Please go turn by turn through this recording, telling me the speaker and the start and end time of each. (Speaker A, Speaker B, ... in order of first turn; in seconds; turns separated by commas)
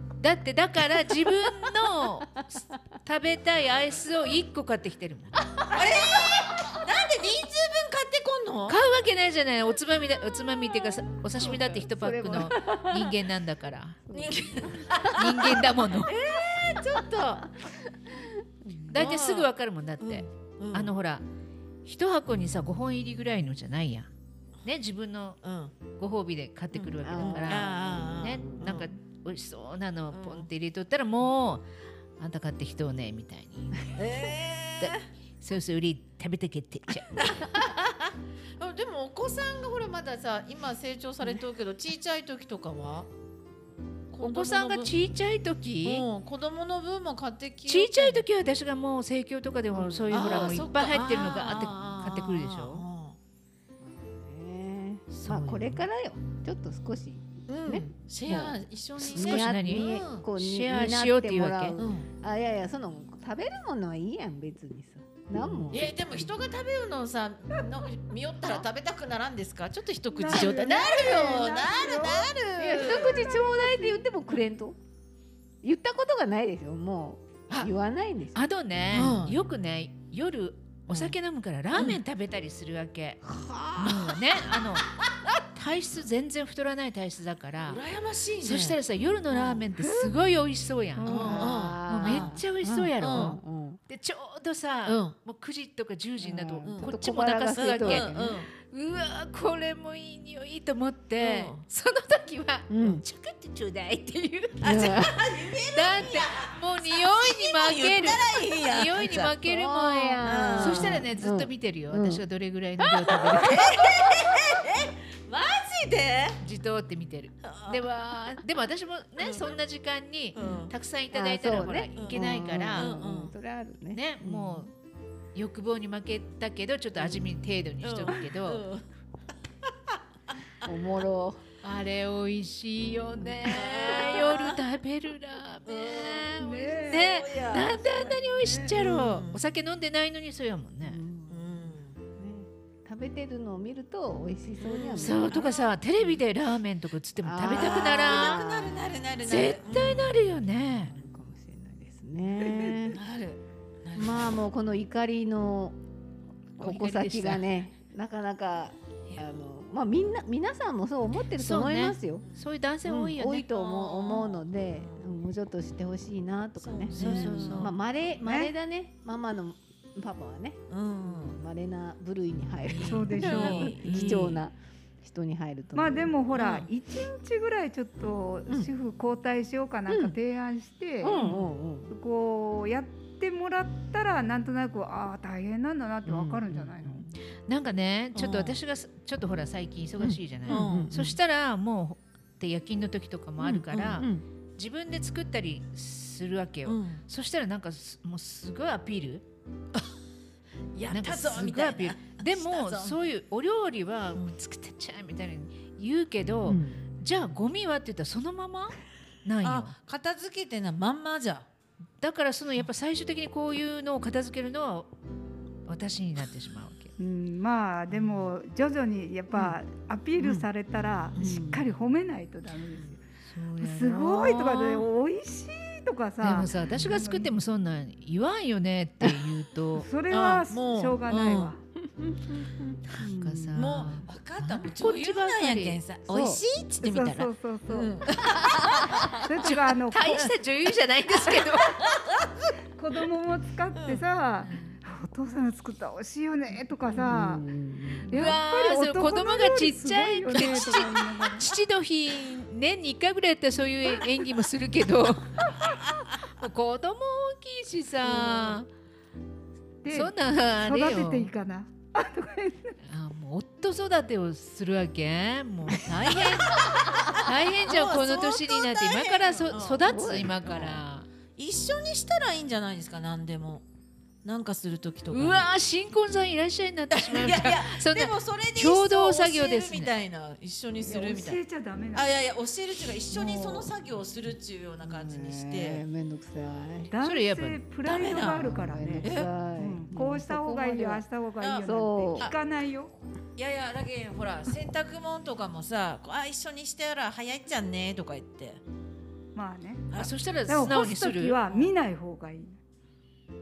Speaker A: 0.2-5.4, Speaker B: 5.5-6.3, Speaker C: 5.7-8.8, Speaker A: 8.7-14.0, Speaker B: 10.8-13.2, Speaker B: 14.1-15.5, Speaker C: 14.1-17.4, Speaker A: 15.0-16.1, Speaker B: 16.8-19.0, Speaker A: 18.9-21.2, Speaker C: 18.9-19.5, Speaker C: 20.0-20.9, Speaker A: 21.8-24.1, Speaker A: 24.6-25.4, Speaker C: 25.4-25.7, Speaker A: 26.0-31.6, Speaker C: 26.7-28.9, Speaker B: 27.0-28.8, Speaker C: 30.1-30.5, Speaker A: 32.2-33.8, Speaker C: 33.9-35.0, Speaker A: 34.8-37.2, Speaker C: 37.1-43.1, Speaker C: 44.1-44.9, Speaker A: 44.2-46.0, Speaker C: 45.8-48.2, Speaker A: 47.6-52.8, Speaker C: 49.7-53.2, Speaker B: 53.8-58.6, Speaker A: 55.1-55.8, Speaker C: 57.5-60.2, Speaker A: 59.0-61.8, Speaker B: 59.1-66.3, Speaker C: 61.8-62.1, Speaker C: 65.7-73.3, Speaker D: 70.1-74.0, Speaker B: 72.5-74.8, Speaker B: 75.6-78.4, Speaker A: 78.3-83.2, Speaker C: 78.9-79.3, Speaker C: 80.9-81.1, Speaker C: 81.7-82.0, Speaker C: 83.5-84.2, Speaker A: 83.8-84.9, Speaker A: 85.5-87.8, Speaker C: 87.7-88.8, Speaker A: 88.4-104.9, Speaker C: 89.3-89.6, Speaker D: 89.8-90.1, Speaker D: 91.0-91.5, Speaker C: 91.0-92.3, Speaker B: 91.1-93.8, Speaker C: 93.0-93.4, Speaker C: 94.8-95.1, Speaker B: 96.2-98.4, Speaker C: 96.7-96.9, Speaker C: 97.5-98.5, Speaker C: 101.2-101.6, Speaker B: 102.7-103.0, Speaker C: 104.6-109.3, Speaker B: 104.6-105.2, Speaker A: 105.7-113.7, Speaker B: 109.4-112.2, Speaker C: 110.2-111.0, Speaker C: 113.1-116.4, Speaker A: 116.4-122.9, Speaker C: 117.4-117.9, Speaker C: 119.2-119.5, Speaker C: 120.3-120.7, Speaker B: 120.4-124.7, Speaker C: 122.0-123.3, Speaker A: 123.9-124.7, Speaker A: 125.3-128.6, Speaker C: 127.8-128.8, Speaker B: 130.6-131.4, Speaker A: 131.6-141.0, Speaker C: 133.4-134.6, Speaker C: 135.7-136.3, Speaker D: 136.4-137.2, Speaker C: 136.8-137.9, Speaker D: 137.9-138.7, Speaker C: 138.7-139.4, Speaker B: 140.8-145.5, Speaker C: 141.3-141.9, Speaker C: 144.6-145.7, Speaker A: 145.0-148.4, Speaker B: 147.2-149.0, Speaker C: 147.5-150.2, Speaker A: 149.2-150.9, Speaker B: 150.7-153.0, Speaker C: 152.8-154.3, Speaker B: 153.9-155.8, Speaker B: 156.6-162.3, Speaker A: 156.6-157.4, Speaker C: 159.1-159.4, Speaker A: 161.4-163.5, Speaker B: 162.8-176.1, Speaker C: 163.5-165.1, Speaker C: 166.6-167.7, Speaker A: 166.9-167.7, Speaker D: 168.2-168.5, Speaker C: 170.7-171.4, Speaker C: 172.7-174.4, Speaker D: 172.8-174.1, Speaker D: 175.7-181.2, Speaker C: 176.3-176.7, Speaker B: 179.9-180.2, Speaker B: 181.0-181.9, Speaker C: 181.1-181.5, Speaker D: 181.9-187.1, Speaker B: 186.0-187.1, Speaker A: 187.5-199.2, Speaker C: 188.1-188.6, Speaker B: 190.0-191.2, Speaker C: 190.5-190.9, Speaker B: 193.4-194.2, Speaker C: 193.7-194.0, Speaker C: 196.7-197.0, Speaker C: 200.7-203.0, Speaker A: 200.9-209.7, Speaker B: 206.4-206.8, Speaker C: 209.4-211.5, Speaker A: 212.0-214.9, Speaker A: 215.7-216.9, Speaker D: 217.0-223.0, Speaker B: 219.3-219.6, Speaker B: 220.2-220.5, Speaker B: 221.2-221.6, Speaker A: 223.2-224.8, Speaker D: 223.6-227.3, Speaker A: 226.2-229.9, Speaker D: 229.7-231.6, Speaker C: 230.1-231.5, Speaker B: 231.8-233.9, Speaker A: 232.8-235.8, Speaker C: 233.6-239.1, Speaker B: 236.1-236.4, Speaker D: 236.8-237.9, Speaker D: 238.8-240.3, Speaker B: 238.8-239.1, Speaker A: 239.4-241.8, Speaker D: 241.2-241.5, Speaker C: 241.8-242.4, Speaker D: 242.8-247.4, Speaker C: 243.7-244.6, Speaker B: 246.9-248.4, Speaker D: 248.1-251.5, Speaker A: 248.1-255.6, Speaker A: 256.3-258.7, Speaker C: 258.1-258.5, Speaker D: 259.8-262.8, Speaker A: 259.9-261.3, Speaker A: 262.8-271.1, Speaker C: 266.1-270.8, Speaker B: 269.8-270.4, Speaker C: 271.4-273.6, Speaker C: 274.2-275.5, Speaker A: 275.1-279.9, Speaker C: 276.9-281.4, Speaker D: 280.8-282.1, Speaker C: 281.9-285.8, Speaker B: 283.2-283.5, Speaker B: 284.8-286.9, Speaker D: 286.9-292.9, Speaker A: 287.0-287.6, Speaker C: 287.8-289.3, Speaker B: 288.2-291.0, Speaker C: 291.4-292.3, Speaker B: 291.6-292.3, Speaker C: 293.4-298.6, Speaker D: 299.3-299.8, Speaker A: 299.9-301.7, Speaker D: 300.5-302.6